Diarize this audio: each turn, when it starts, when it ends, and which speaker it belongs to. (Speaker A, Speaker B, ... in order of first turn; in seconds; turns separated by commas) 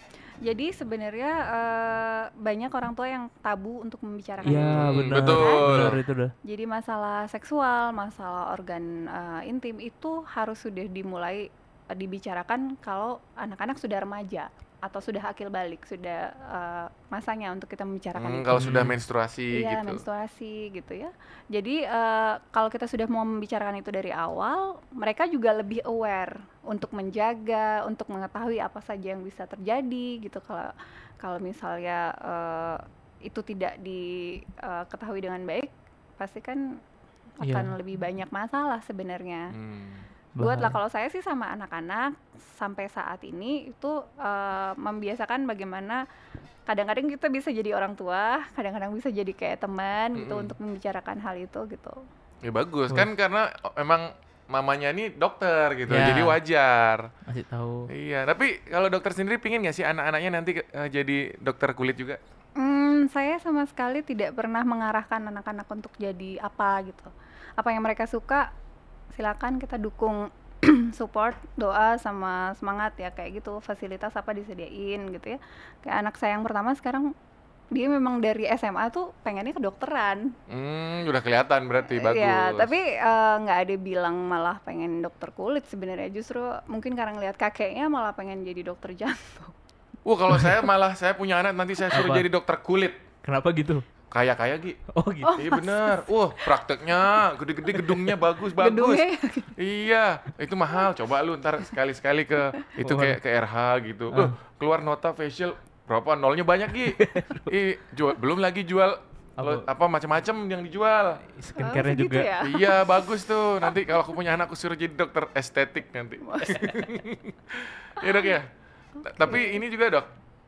Speaker A: 0.4-18.7, Speaker B: 4.4-6.0, Speaker C: 4.4-6.3, Speaker B: 18.1-20.0, Speaker C: 18.5-18.9, Speaker A: 19.5-36.7, Speaker A: 37.4-39.5, Speaker C: 37.4-37.8, Speaker B: 39.5-40.1, Speaker C: 40.4-40.8, Speaker A: 40.4-46.0, Speaker A: 46.7-52.0, Speaker B: 50.1-50.5, Speaker B: 52.4-57.1, Speaker C: 55.9-56.4, Speaker C: 57.3-57.9, Speaker B: 57.9-62.2, Speaker A: 62.6-68.5, Speaker A: 69.1-77.1, Speaker A: 77.7-80.3, Speaker B: 80.5-82.7, Speaker A: 81.8-89.5, Speaker B: 90.0-93.0, Speaker C: 91.9-92.3, Speaker C: 93.2-93.8, Speaker B: 94.1-94.8, Speaker C: 94.9-95.5, Speaker A: 95.2-96.5, Speaker B: 95.3-99.0, Speaker A: 98.6-99.5, Speaker B: 99.5-111.2, Speaker C: 102.8-103.2, Speaker C: 106.9-107.5, Speaker C: 109.4-109.6, Speaker C: 111.3-112.3, Speaker A: 111.6-113.1, Speaker B: 112.4-118.5, Speaker A: 116.2-116.8, Speaker A: 118.0-118.3, Speaker A: 119.0-119.6, Speaker B: 119.0-120.1